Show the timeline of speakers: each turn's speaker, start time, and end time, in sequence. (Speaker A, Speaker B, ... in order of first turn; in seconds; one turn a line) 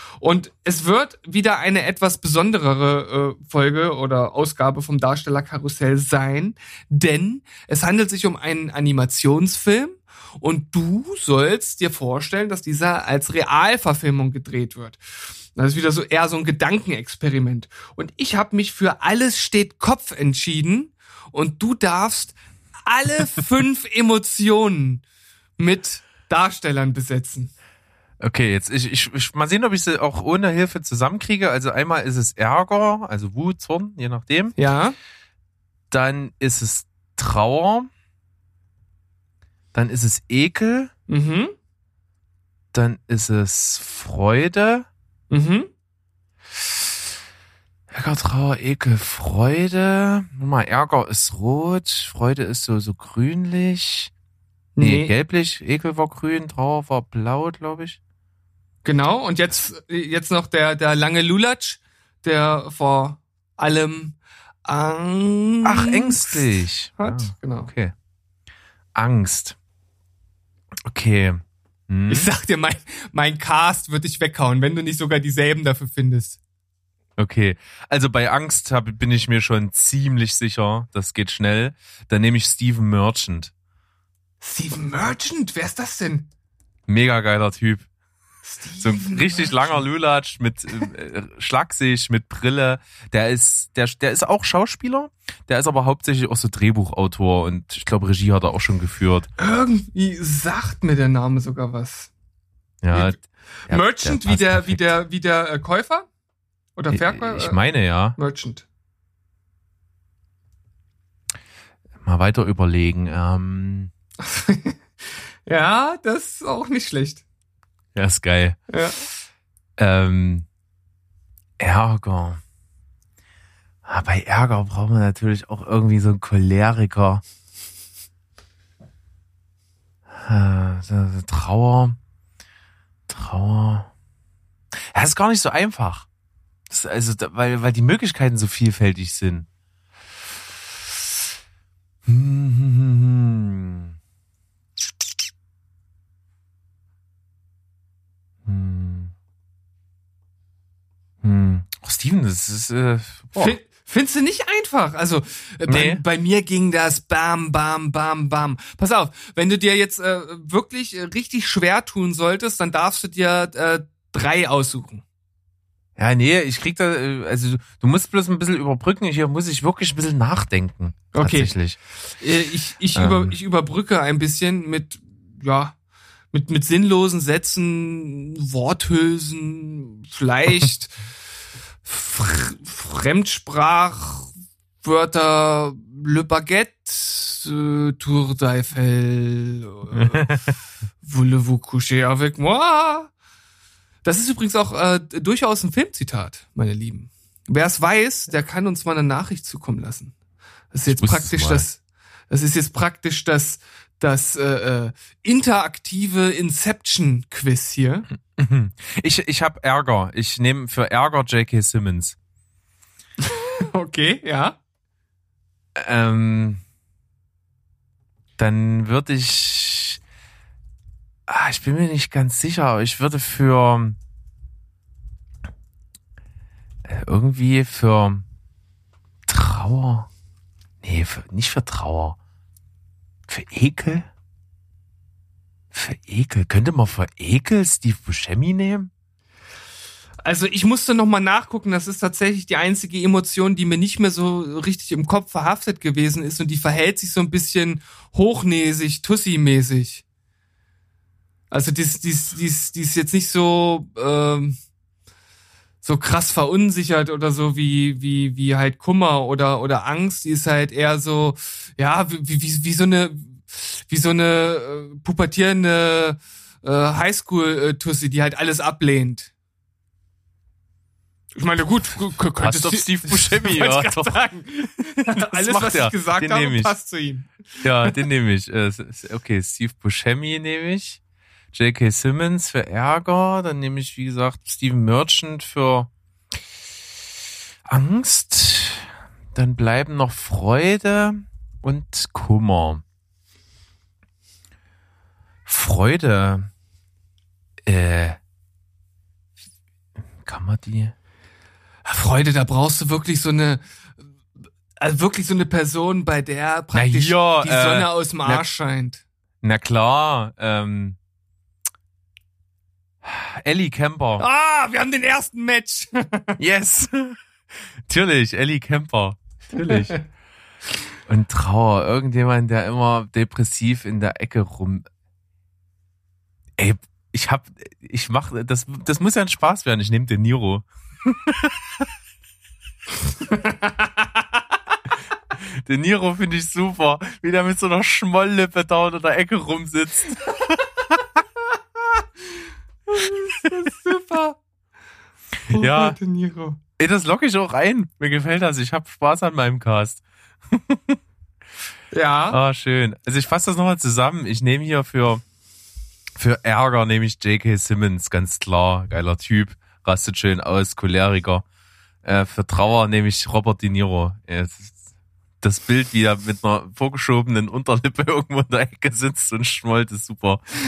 Speaker A: 0.2-15.0
Speaker A: 15.6-25.0
Speaker A: 25.6-27.5
Speaker B: 28.2-34.5
Speaker A: 34.6-35.0
Speaker B: 35.9-37.9
Speaker B: 39.7-40.9
Speaker A: 41.1-41.5
Speaker B: 42.7-44.9
Speaker A: 45.3-45.7
Speaker B: 47.9-54.1
Speaker A: 54.8-55.1
Speaker B: 54.8-58.0
Speaker A: 58.9-67.7
Speaker B: 65.7-67.9
Speaker B: 69.0-69.6
Speaker B: 70.9-72.3
Speaker A: 72.1-76.4
Speaker B: 77.2-83.5
Speaker A: 84.4-86.3
Speaker B: 86.9-87.9
Speaker A: 88.5-89.7
Speaker B: 88.8-99.3
Speaker A: 99.4-102.1
Speaker B: 102.8-104.9
Speaker A: 102.9-106.1
Speaker A: 106.8-107.6
Speaker B: 106.9-108.2
Speaker A: 108.2-108.7
Speaker B: 112.0-113.9
Speaker A: 114.2-114.8
Speaker A: 115.5-117.2
Speaker B: 118.0-118.6
Speaker A: 118.7-119.0
Speaker B: 119.8-120.5
Speaker B: 121.6-122.4
Speaker B: 123.9-127.2
Speaker B: 130.1-132.0
Speaker B: 133.1-133.9
Speaker B: 134.9-136.1
Speaker B: 136.7-139.5
Speaker B: 142.1-143.9
Speaker B: 148.4-149.1
Speaker B: 151.2-153.6
Speaker A: 153.4-165.0
Speaker B: 155.7-156.0
Speaker B: 166.0-171.8
Speaker A: 171.1-171.6
Speaker A: 172.2-175.8
Speaker B: 172.9-173.3
Speaker A: 176.3-181.0
Speaker A: 181.8-184.3
Speaker A: 184.8-190.2
Speaker B: 189.9-190.4
Speaker A: 191.0-193.1
Speaker A: 194.1-200.1
Speaker A: 200.7-208.1
Speaker B: 200.9-201.6
Speaker B: 208.3-212.2
Speaker A: 213.2-214.6
Speaker B: 215.8-216.6
Speaker B: 218.4-220.0
Speaker B: 221.3-224.0
Speaker B: 226.8-228.2
Speaker B: 229.3-230.1
Speaker B: 230.8-232.2
Speaker B: 233.3-234.1
Speaker B: 235.7-238.9
Speaker A: 240.2-250.0
Speaker A: 251.5-254.6
Speaker A: 255.8-269.3
Speaker A: 271.4-278.0
Speaker B: 272.4-274.2
Speaker B: 275.0-276.7
Speaker B: 277.6-281.0
Speaker B: 281.5-285.9
Speaker B: 287.7-292.8
Speaker B: 295.5-296.5
Speaker B: 297.7-298.2
Speaker B: 300.2-300.9
Speaker A: 301.9-303.6
Speaker A: 304.8-309.0
Speaker B: 306.7-308.4
Speaker B: 309.4-311.0
Speaker B: 313.0-314.2
Speaker A: 314.2-316.4
Speaker B: 316.4-317.2
Speaker B: 317.9-320.0
Speaker A: 319.6-320.0
Speaker B: 321.1-324.9
Speaker B: 326.6-331.9
Speaker A: 333.3-333.9
Speaker B: 335.5-341.2
Speaker A: 342.9-344.4
Speaker B: 345.5-346.0
Speaker A: 345.5-346.6
Speaker B: 346.8-351.0
Speaker A: 351.9-352.4
Speaker B: 352.3-355.2
Speaker B: 356.2-361.4
Speaker B: 362.0-364.8
Speaker B: 365.4-370.4